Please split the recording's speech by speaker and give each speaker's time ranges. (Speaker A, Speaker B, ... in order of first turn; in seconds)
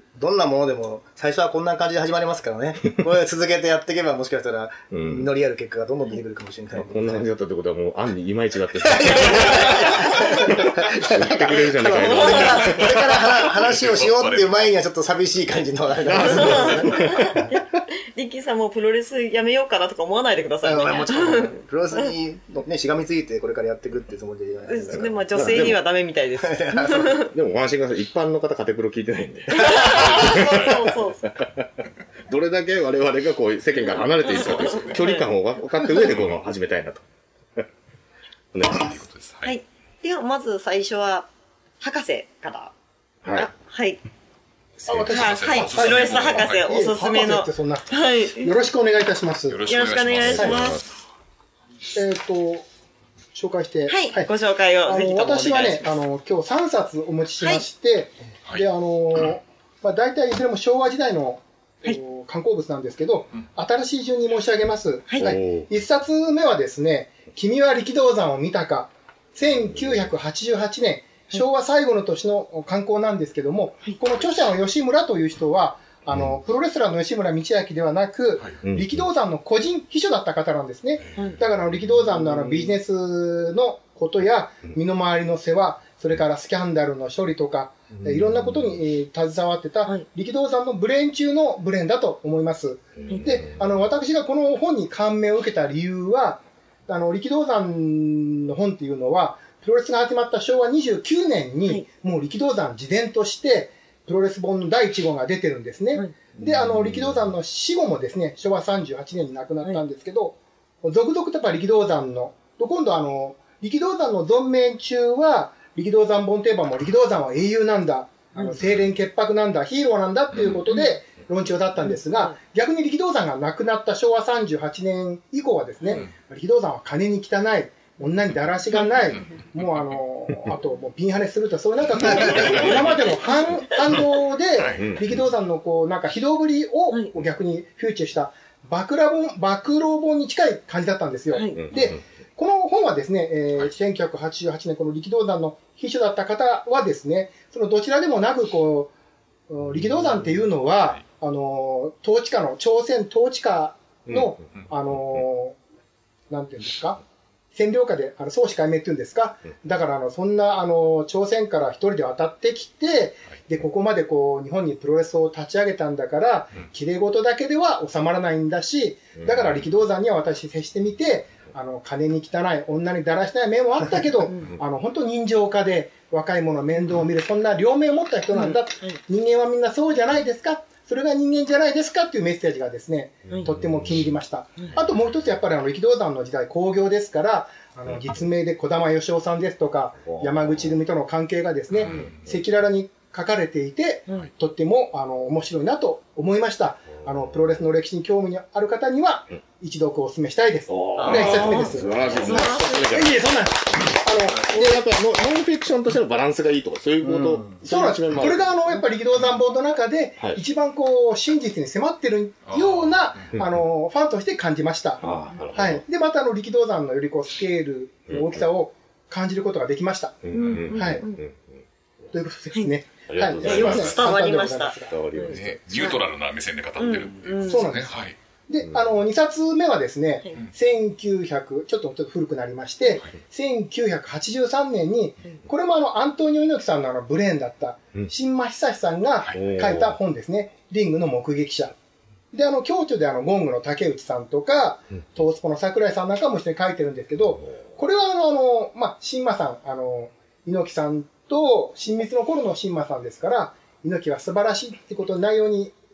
Speaker A: 0.1-7.3, 8.8-17.0, 20.6-25.8, 26.4-27.2, 201.0-201.4, 207.0-207.6
Speaker B: 4.9-5.3, 6.8-13.0, 16.0-17.6, 25.3-25.8, 27.3-37.0, 38.5-39.0, 43.2-43.5, 50.2-50.8, 65.2-65.7, 78.6-79.0, 88.0-88.8, 93.0-93.6, 106.4-107.2, 134.7-135.2, 141.6-142.0, 154.1-154.3, 169.2-169.6, 183.4-184.1, 190.1-190.8, 200.7-203.2, 204.4-208.5, 213.3-213.6, 215.0-215.8, 218.1-218.5, 220.2-221.6, 223.1-224.1, 224.9-225.9, 228.7-228.9, 239.3-240.0
Speaker C: 11.9-12.9, 16.2-22.1, 24.7-27.3, 29.5-31.3, 34.3-35.3, 39.4-41.3, 41.8-42.7, 43.3-44.0, 45.0-48.5, 49.7-50.8, 53.9-55.9, 65.1-65.3, 93.1-93.4, 141.3-141.6, 178.3-179.0, 201.1-202.9, 220.3-221.2, 223.4-225.8, 226.8-227.7
Speaker D: 13.1-14.6, 30.3-30.7, 34.4-34.9, 38.7-39.5, 44.9-46.7, 49.5-50.7, 132.2-133.0, 134.6-134.8, 191.8-192.1, 202.0-202.5, 212.4-213.2, 225.3-228.2
Speaker E: 44.9-49.6, 51.9-52.6, 53.3-54.3, 54.9-148.9, 149.5-155.6, 156.3-157.0, 157.5-204.8, 207.6-221.0, 222.1-225.1, 227.4-241.8, 242.3-255.8